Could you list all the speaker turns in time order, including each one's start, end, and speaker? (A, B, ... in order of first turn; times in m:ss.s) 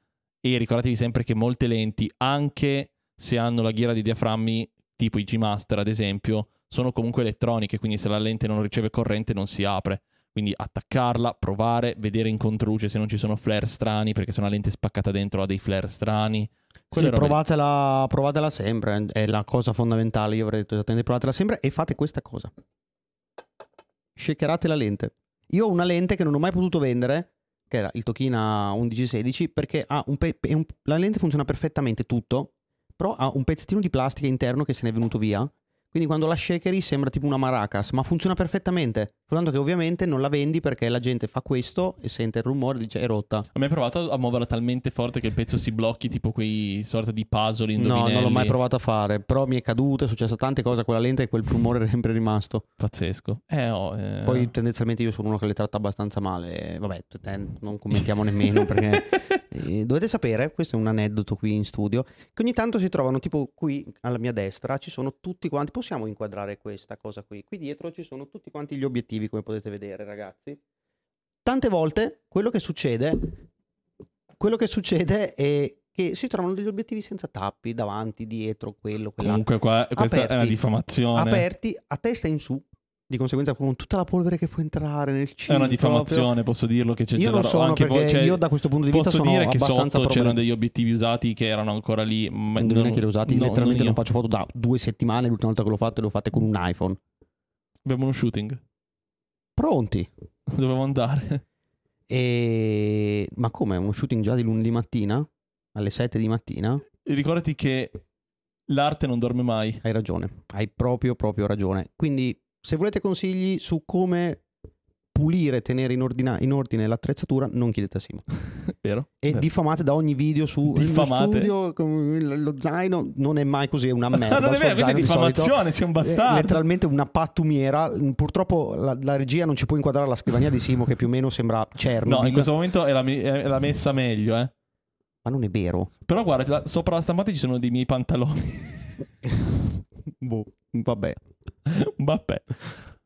0:00.4-0:17.4 A
0:16.9-0:22.5 B
0:24.2-0:43.5 B
0:43.6-0:48.6 A
0:47.8-0:52.6 B
0:52.8-0:54.5 A
0:54.3-1:10.6 B
0:58.5-0:58.8 A
1:11.4-1:13.4 B
1:14.4-1:26.3 B
1:19.2-1:21.4 A
1:25.5-1:34.0 A
1:27.2-1:30.4 B
1:32.6-1:37.0 B
1:37.8-1:38.6 A
1:39.6-1:40.1 B
1:40.5-1:41.4 A
1:42.1-1:46.8 B
1:47.0-1:48.0 A
1:48.7-1:49.8 A
1:49.8-1:54.4 B
1:55.1-1:58.2 B
1:58.7-1:59.4 A
1:59.2-2:12.5 B
2:00.7-2:01.5 A
2:04.1-2:06.6 A
2:12.0-2:14.5 A
2:15.2-2:15.9 B
2:16.1-2:19.1 A
2:20.2-2:21.2 B
2:21.7-2:22.7 A